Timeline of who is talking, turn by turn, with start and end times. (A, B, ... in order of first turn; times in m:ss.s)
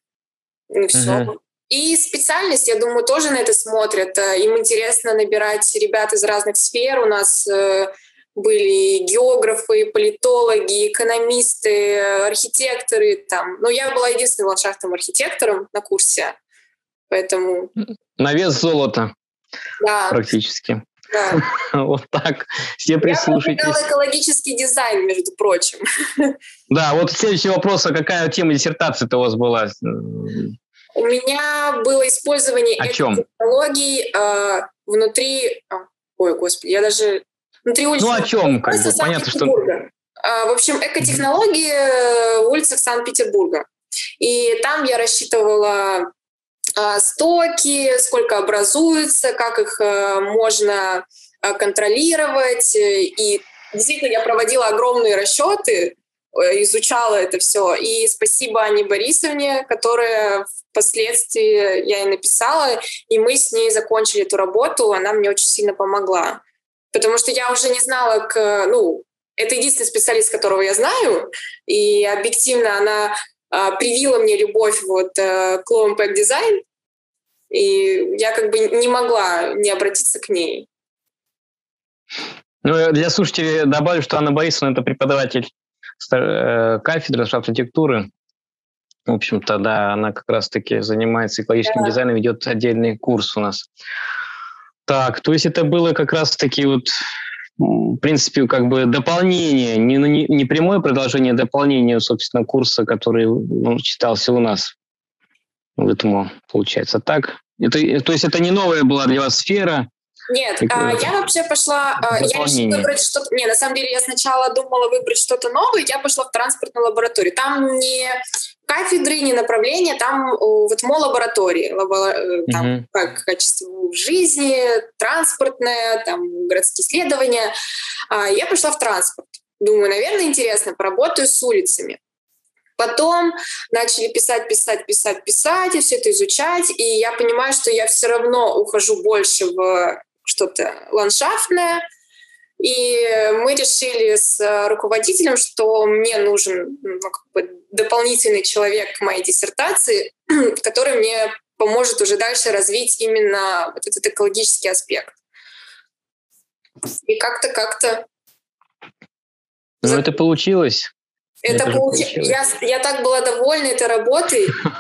0:00.7-0:16.4 A
0:00.9-0:01.3 B
0:17.1-0:17.7 A
0:18.2-0:19.1 B
0:19.8-0:20.2 A
0:20.1-0:23.8 B
0:21.1-0:21.4 A
0:23.0-0:26.4 A
0:26.7-0:30.6 B
0:31.0-0:43.7 A
0:32.8-0:33.2 B
0:38.0-0:39.6 B
0:44.2-0:46.1 A
0:46.8-1:06.4 A
1:06.9-1:16.6 A
1:17.5-1:20.7 A
1:22.6-1:25.5 B
1:26.0-1:28.1 B
1:29.1-1:33.7 B
1:31.6-1:31.9 A
1:34.9-1:36.9 B
1:37.6-1:44.7 B
1:45.8-1:49.9 B
1:50.3-2:07.5 A
1:50.6-1:51.1 B
1:52.0-1:52.9 B
2:02.5-2:02.8 B
2:08.1-2:12.0 A
2:12.8-2:21.8 A
2:22.6-2:35.2 A
2:37.1-2:38.0 A
2:39.8-2:40.9 B
2:39.8-2:40.1 A
2:41.4-2:44.6 A
2:41.5-2:42.4 B